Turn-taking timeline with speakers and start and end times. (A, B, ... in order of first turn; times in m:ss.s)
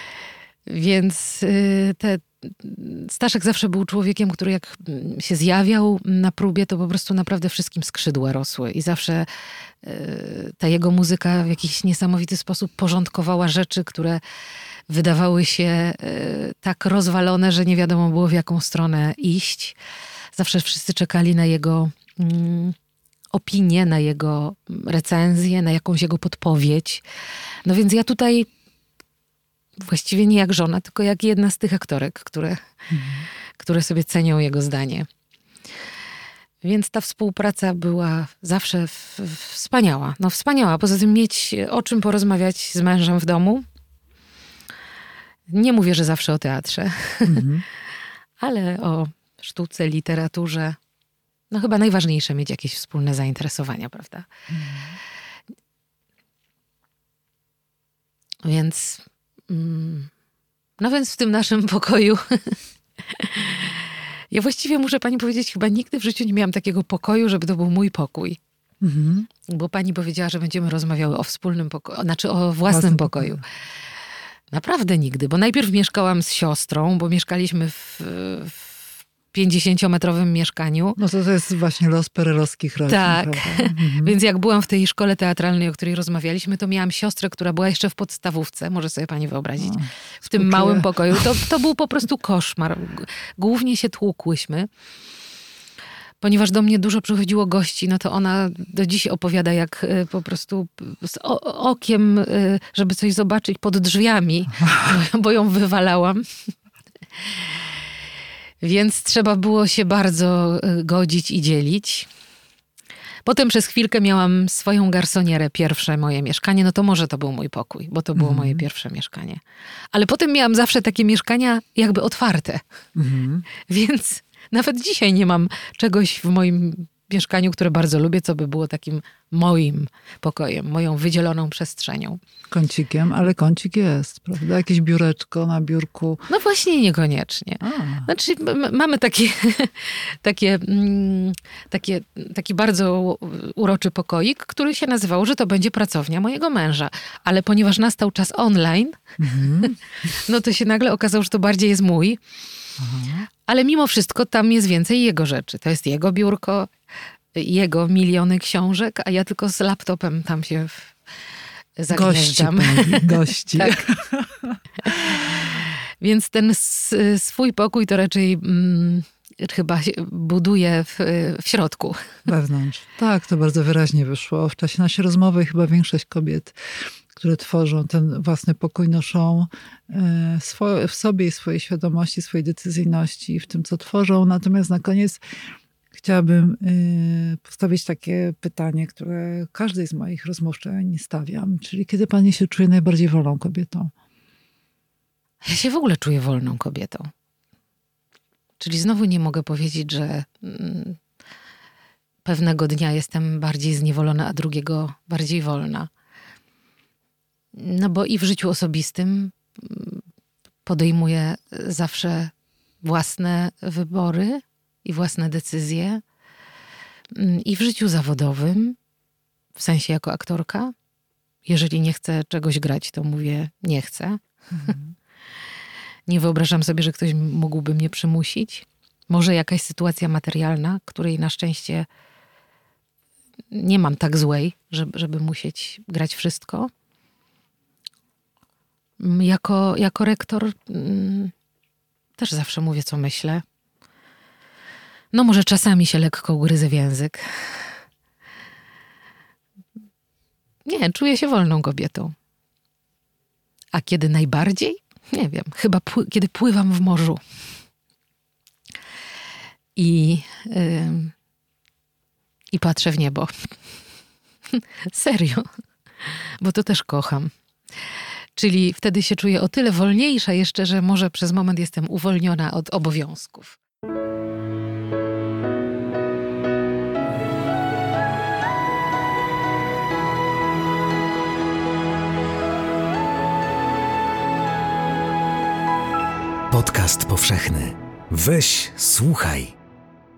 0:00.7-0:09.3 A
0:09.8-0:14.2 A
0:14.9-0:19.8 A
0:20.3-0:22.8 A
0:23.3-0:27.0 A
0:27.6-0:28.5 A
0:29.8-0:32.6 A
0:32.9-0:33.3 B
0:33.6-0:35.1 A
0:36.6-0:43.6 A
0:45.5-0:47.4 A
0:47.2-0:47.6 B
0:48.4-0:50.8 A
0:51.5-0:54.3 A
0:54.5-0:55.0 B
0:58.4-1:00.1 A
1:00.8-1:03.8 A
1:04.3-1:08.4 A
1:08.8-1:09.3 B
1:09.5-1:13.4 A
1:12.7-1:13.4 B
1:14.5-1:18.8 A
1:19.3-1:21.0 A
1:21.0-1:24.2 B
1:22.9-1:34.7 A
1:29.6-1:31.2 B
1:36.2-1:46.5 A
1:48.6-1:52.1 A
1:53.2-1:59.4 A
1:58.2-1:58.6 B
1:59.9-2:02.6 A
2:02.9-2:03.5 B
2:03.7-2:12.2 A
2:12.5-2:16.2 B
2:16.3-2:29.0 A
2:17.6-2:18.1 B
2:29.2-2:29.8 B
2:29.6-2:32.2 A
2:32.8-2:33.3 B
2:33.5-2:36.7 A
2:37.3-2:40.9 A
2:41.8-2:43.8 A
2:41.9-2:45.2 B
2:46.0-2:52.1 A
2:52.2-3:05.2 B
3:05.9-3:13.9 B
3:15.4-3:17.1 A
3:18.6-3:21.0 A
3:22.2-3:25.9 A
3:27.5-3:30.0 A
3:30.6-3:36.0 A
3:37.1-3:38.8 A
3:39.6-3:40.7 A
3:41.4-3:44.7 A
3:44.5-3:44.9 B
3:46.1-3:51.9 A
3:53.5-3:56.7 A
3:59.0-4:01.3 A
4:02.2-4:03.4 A
4:05.1-4:07.6 A
4:10.6-4:12.1 A
4:13.7-4:17.2 A
4:19.8-4:21.1 A
4:22.5-4:23.3 A
4:24.5-4:25.5 A
4:26.0-4:27.3 A
4:28.4-4:33.6 A
4:46.5-4:49.5 C